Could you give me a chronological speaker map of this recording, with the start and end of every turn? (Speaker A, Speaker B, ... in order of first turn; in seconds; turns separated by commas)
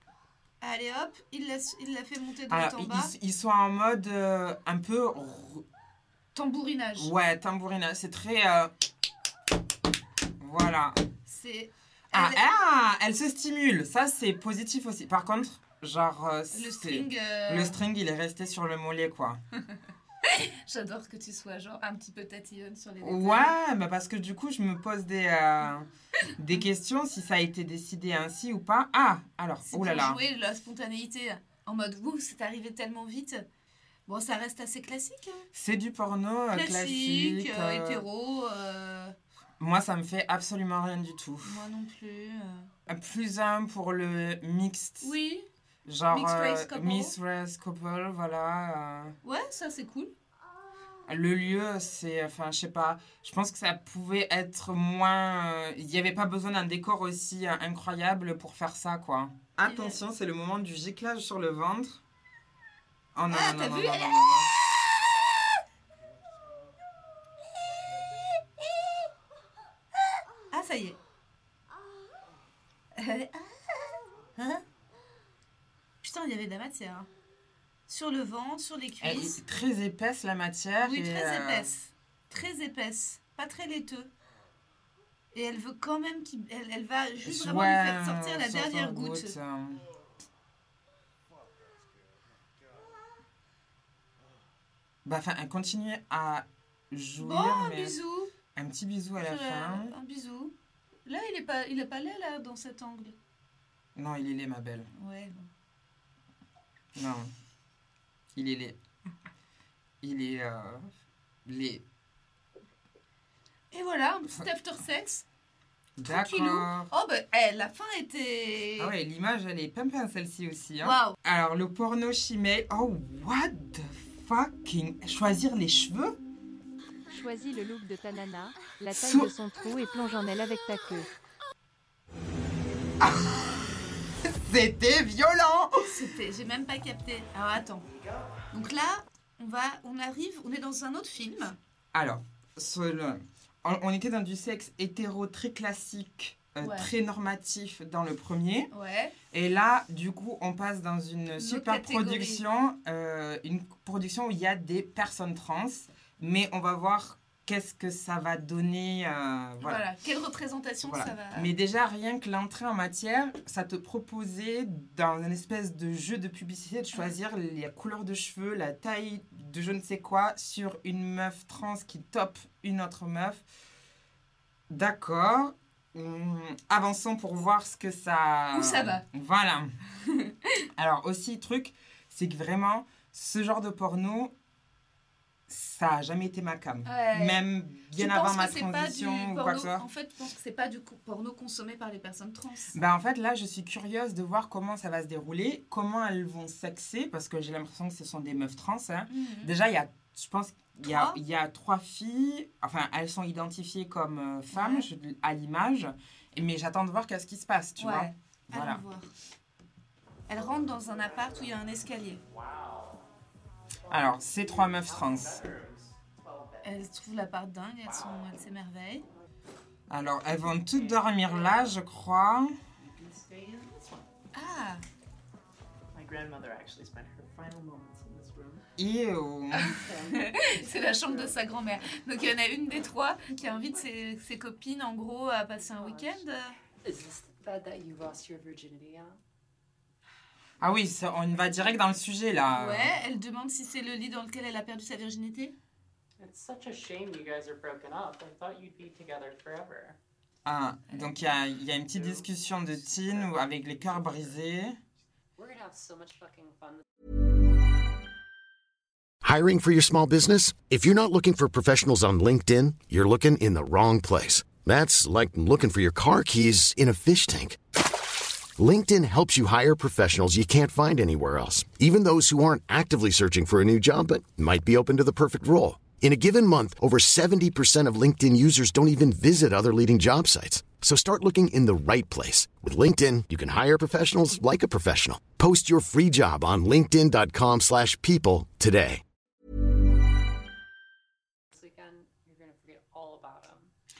Speaker A: 0.6-3.1, Speaker B: 2.5-5.6, Speaker A: 6.3-7.1, Speaker B: 7.0-8.7, Speaker B: 10.4-11.0, Speaker A: 11.3-12.4, Speaker B: 12.1-19.4, Speaker A: 16.5-17.8, Speaker A: 20.2-23.6, Speaker B: 23.0-30.2, Speaker A: 29.7-33.4, Speaker A: 34.1-35.5, Speaker B: 35.5-38.0, Speaker A: 36.5-39.1, Speaker B: 39.6-41.6, Speaker A: 41.4-42.7, Speaker B: 42.9-45.1, Speaker A: 45.0-45.5, Speaker B: 45.9-49.2, Speaker A: 46.1-47.1, Speaker A: 49.2-50.1, Speaker B: 51.1-62.0, Speaker A: 59.6-60.0, Speaker B: 63.1-64.5, Speaker A: 63.3-64.4, Speaker A: 70.5-71.0, Speaker A: 73.0-73.6, Speaker A: 74.4-74.6, Speaker A: 76.0-77.1, Speaker A: 77.9-79.4, Speaker B: 79.0-81.7, Speaker A: 80.8-84.1, Speaker A: 85.3-89.3, Speaker B: 87.2-89.8, Speaker B: 95.0-98.0, Speaker A: 97.2-98.3, Speaker B: 98.5-99.9, Speaker A: 99.2-100.5, Speaker A: 101.1-103.2, Speaker B: 104.0-104.9, Speaker A: 104.9-105.5, Speaker B: 107.0-107.3, Speaker B: 108.3-108.8, Speaker B: 110.0-110.9, Speaker B: 111.5-111.8, Speaker A: 113.7-115.2, Speaker B: 116.0-116.9, Speaker A: 116.0-118.9, Speaker B: 118.8-126.2, Speaker A: 120.8-121.2, Speaker C: 127.1-131.1, Speaker B: 128.9-129.3, Speaker B: 133.0-133.7, Speaker B: 134.3-135.9, Speaker A: 135.8-137.8, Speaker A: 138.5-141.6, Speaker B: 141.9-148.7, Speaker A: 146.6-146.9, Speaker A: 148.7-149.1, Speaker B: 149.3-159.8, Speaker A: 151.4-152.4, Speaker A: 159.6-161.5, Speaker B: 160.8-173.4, Speaker B: 174.7-179.7, Speaker A: 178.5-179.0, Speaker A: 180.1-180.3, Speaker B: 180.8-184.3, Speaker B: 185.5-189.8, Speaker A: 186.9-187.4, Speaker A: 187.9-192.8, Speaker B: 192.7-208.8, Speaker A: 199.1-199.5, Speaker A: 200.8-201.2, Speaker A: 204.5-204.9, Speaker A: 207.8-209.1, Speaker A: 210.3-212.2, Speaker D: 210.8-211.4, Speaker D: 212.3-213.0, Speaker B: 213.9-215.4, Speaker D: 214.6-216.8, Speaker A: 216.6-219.1, Speaker B: 219.9-222.6, Speaker D: 220.7-221.7, Speaker D: 222.8-224.0, Speaker A: 224.3-224.8, Speaker D: 225.9-228.6, Speaker B: 228.8-229.8, Speaker A: 229.5-236.6, Speaker E: 229.8-231.4, Speaker E: 235.6-236.2, Speaker E: 236.8-239.2, Speaker B: 240.6-242.9, Speaker A: 242.5-245.5, Speaker D: 246.2-250.0, Speaker B: 250.5-254.8, Speaker E: 252.8-254.2, Speaker E: 255.4-256.8, Speaker F: 259.2-267.6, Speaker F: 268.6-289.0, Speaker E: 291.5-293.7